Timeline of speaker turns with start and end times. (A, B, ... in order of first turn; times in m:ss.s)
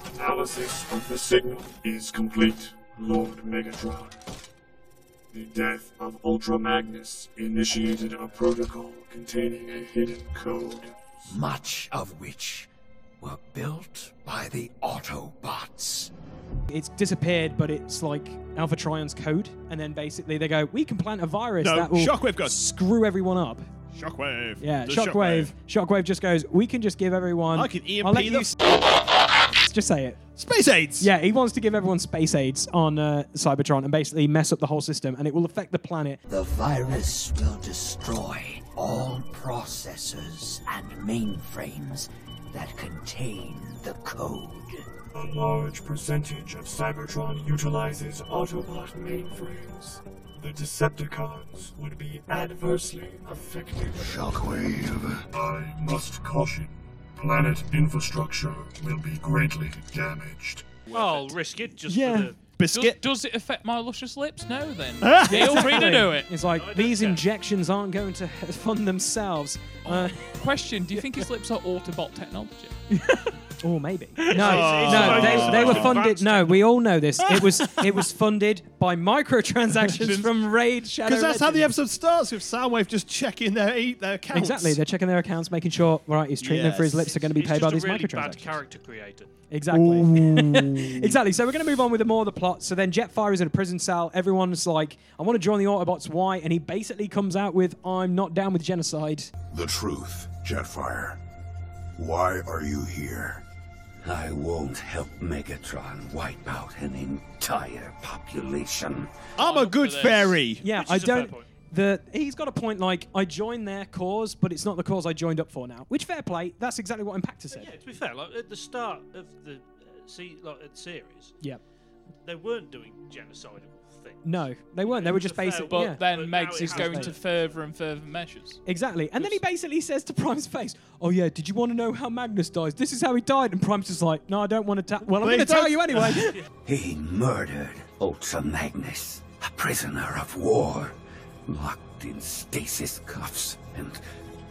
0:00.1-0:04.2 A
0:05.3-0:11.3 A
0:11.3-0:12.6 B
0:13.2-0:16.1 B
0:16.7-0:23.6 C
0:21.6-0:22.5 D
0:23.9-0:25.5 D
0:24.6-0:28.6 C
0:27.5-0:28.5 D
0:29.6-0:30.2 C
0:30.4-0:31.1 D
0:31.0-0:36.2 C
0:45.1-0:54.4 A
0:55.3-1:00.8 A
1:00.9-1:01.4 E
1:00.9-1:02.4 F
1:01.9-1:02.3 C
1:02.6-1:03.0 D
1:02.7-1:06.3 E
1:05.0-1:05.6 D
1:05.2-1:10.2 C
1:06.4-1:07.2 F
1:09.8-1:12.8 E
1:10.9-1:11.2 C
1:12.9-1:21.7 C
1:14.3-1:16.0 D
1:14.4-1:16.7 F
1:21.0-1:24.8 D
1:24.3-1:28.6 C
1:26.4-1:27.1 D
1:27.1-1:29.3 F
1:29.5-1:39.3 C
1:29.7-1:31.2 D
1:39.5-1:41.2 G
1:42.0-1:43.4 G
1:44.0-1:49.2 B
1:49.4-1:50.6 D
1:49.4-1:50.4 E
1:50.6-1:57.7 C
1:50.7-1:51.4 F
1:57.5-2:01.4 F
2:02.2-2:07.6 F
2:04.2-2:07.2 C
2:05.7-2:08.6 E
2:08.6-2:16.4 C
2:15.2-2:16.3 D
2:16.6-2:20.9 B
2:21.5-2:24.0 B